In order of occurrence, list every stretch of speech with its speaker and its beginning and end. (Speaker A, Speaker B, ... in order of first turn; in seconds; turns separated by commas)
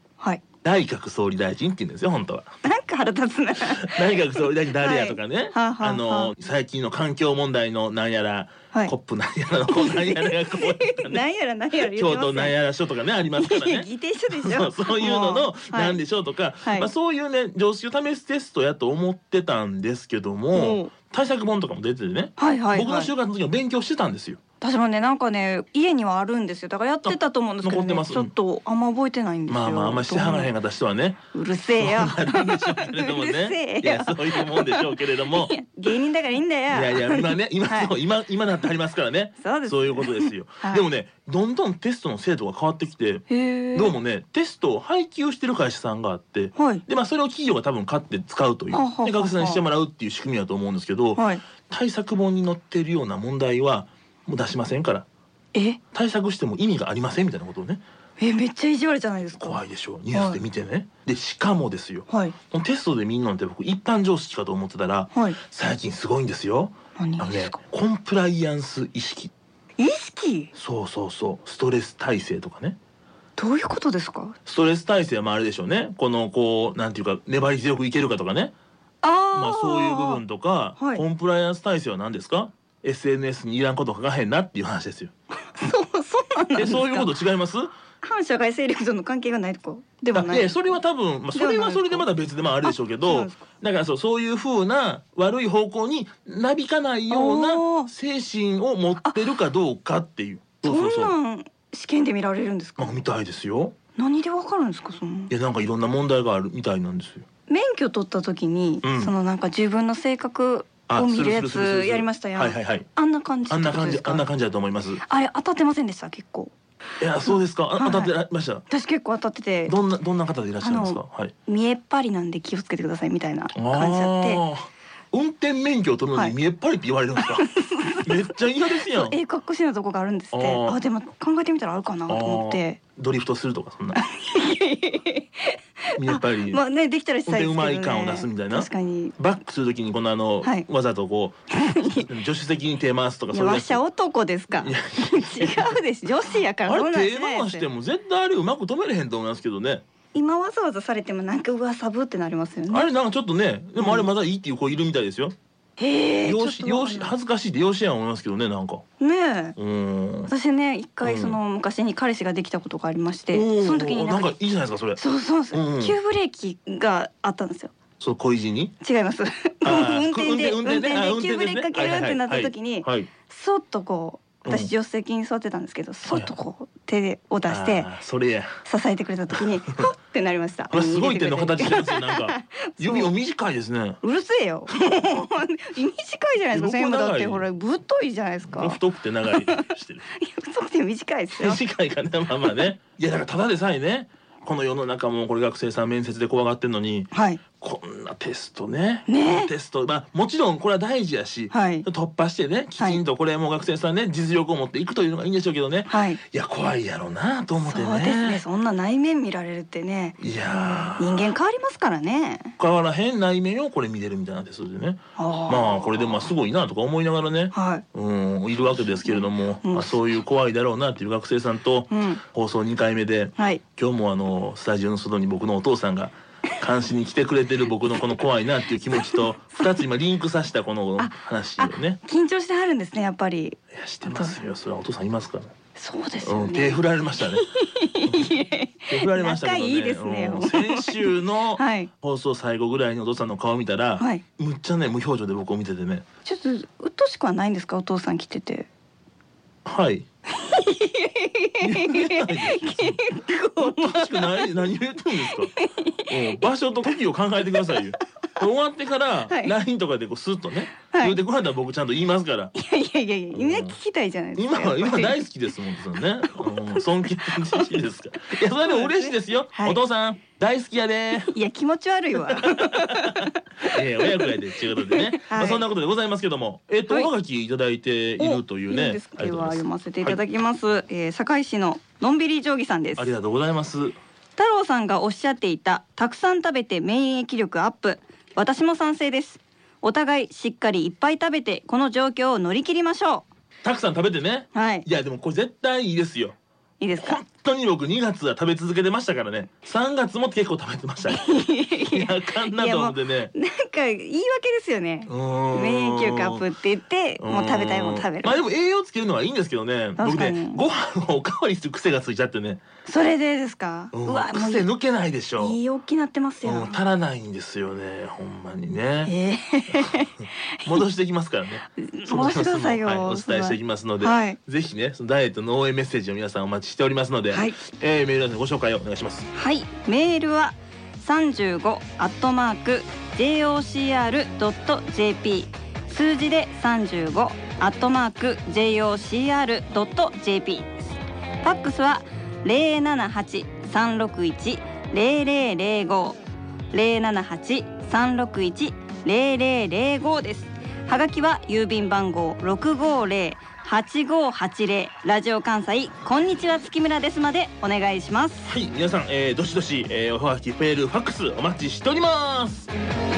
Speaker A: 0.6-2.5, Speaker B: 2.6-6.3, Speaker A: 3.6-11.2, Speaker B: 9.7-12.6, Speaker A: 11.8-24.4, Speaker B: 13.4-16.0, Speaker B: 16.7-16.9, Speaker B: 20.5-20.9, Speaker B: 22.4-23.1, Speaker B: 24.6-30.5, Speaker A: 27.1-28.3, Speaker A: 29.5-35.5, Speaker B: 31.3-37.9, Speaker A: 36.7-55.1, Speaker B: 39.4-40.8, Speaker B: 43.3-44.0, Speaker B: 46.6-46.9, Speaker B: 48.7-49.6, Speaker B: 51.2-51.4, Speaker B: 55.5-55.8, Speaker A: 55.9-57.8, Speaker B: 58.2-59.6, Speaker A: 59.4-69.3, Speaker B: 60.1-60.4, Speaker B: 62.1-62.4, Speaker B: 67.0-67.6, Speaker B: 69.8-70.5, Speaker A: 70.5-72.8, Speaker B: 73.4-74.4, Speaker A: 74.5-78.5, Speaker B: 79.0-80.2, Speaker A: 79.3-85.1, Speaker B: 80.8-81.0, Speaker B: 85.5-87.1, Speaker A: 86.6-87.7, Speaker B: 88.0-90.8, Speaker A: 90.1-101.2, Speaker B: 91.3-92.1, Speaker B: 92.6-93.4, Speaker B: 97.1-97.9, Speaker B: 99.0-99.4, Speaker B: 100.6-103.0, Speaker A: 102.8-103.8, Speaker B: 104.0-105.3, Speaker A: 105.3-107.3, Speaker B: 107.5-114.2, Speaker A: 108.8-109.1, Speaker A: 110.9-112.9, Speaker A: 113.5-115.0, Speaker B: 115.0-116.5, Speaker A: 117.0-118.6, Speaker B: 117.3-118.1, Speaker B: 118.7-119.8, Speaker A: 119.7-121.3, Speaker B: 120.6-124.4, Speaker A: 123.5-127.5, Speaker B: 127.2-128.3, Speaker A: 128.0-129.2, Speaker B: 128.9-132.8, Speaker A: 130.3-130.8, Speaker A: 132.1-134.0, Speaker B: 134.0-139.2, Speaker A: 136.0-136.6, Speaker A: 137.2-143.8, Speaker B: 141.6-142.1, Speaker B: 143.3-147.7, Speaker A: 144.5-145.8, Speaker A: 146.6-149.8, Speaker B: 150.1-152.9, Speaker A: 152.7-155.3, Speaker B: 153.8-154.1, Speaker B: 155.8-157.1, Speaker A: 156.2-158.8, Speaker B: 159.0-159.6, Speaker A: 159.6-160.3, Speaker B: 160.3-164.3, Speaker A: 161.0-161.4, Speaker A: 163.3-166.0, Speaker B: 165.0-167.7, Speaker A: 168.0-168.8, Speaker B: 168.8-177.9, Speaker A: 169.6-173.1, Speaker A: 174.4-174.7, Speaker A: 176.1-176.3, Speaker A: 177.5-178.5, Speaker B: 178.7-183.1, Speaker A: 180.7-184.0, Speaker B: 184.0-188.8, Speaker A: 186.5-187.4, Speaker A: 188.5-190.0, Speaker B: 189.3-189.7, Speaker B: 190.2-191.6, Speaker A: 191.4-208.4, Speaker B: 197.1-197.4, Speaker B: 199.1-199.5, Speaker B: 201.5-201.9, Speaker B: 205.9-206.2, Speaker B: 207.6-212.5, Speaker A: 210.2-211.3, Speaker A: 212.6-232.0, Speaker B: 215.2-216.3, Speaker B: 217.5-217.8, Speaker B: 219.1-220.1, Speaker B: 221.9-222.2, Speaker B: 228.9-229.7, Speaker B: 231.0-234.4, Speaker A: 233.7-235.5, Speaker B: 235.8-241.9, Speaker A: 236.2-237.5, Speaker A: 238.1-246.1, Speaker B: 244.0-244.2, Speaker B: 246.2-248.7, Speaker A: 249.7-250.1, Speaker B: 250.4-254.7, Speaker A: 251.6-255.5, Speaker B: 255.3-256.4, Speaker A: 256.1-262.5, Speaker B: 257.5-257.8, Speaker B: 259.3-259.5, Speaker B: 260.9-261.2, Speaker B: 262.6-265.2, Speaker A: 263.3-263.8, Speaker A: 264.4-271.3, Speaker B: 266.2-269.8, Speaker B: 271.3-273.4, Speaker A: 272.2-280.2, Speaker B: 274.0-274.3, Speaker B: 274.9-275.6, Speaker B: 278.2-283.1, Speaker A: 283.0-284.0, Speaker B: 284.4-293.3, Speaker A: 293.6-296.4, Speaker B: 294.5-294.9, Speaker B: 296.8-297.2, Speaker A: 297.0-303.3, Speaker B: 301.1-308.4, Speaker A: 305.1-306.4, Speaker A: 307.2-312.6, Speaker B: 310.0-310.6, Speaker B: 312.9-314.7, Speaker A: 313.9-315.6, Speaker B: 315.4-316.8, Speaker A: 316.4-319.1, Speaker B: 319.1-320.1, Speaker A: 319.7-329.3, Speaker B: 321.8-324.4, Speaker B: 327.3-327.6, Speaker B: 329.3-346.2, Speaker B: 346.7-358.5, Speaker A: 358.4-362.7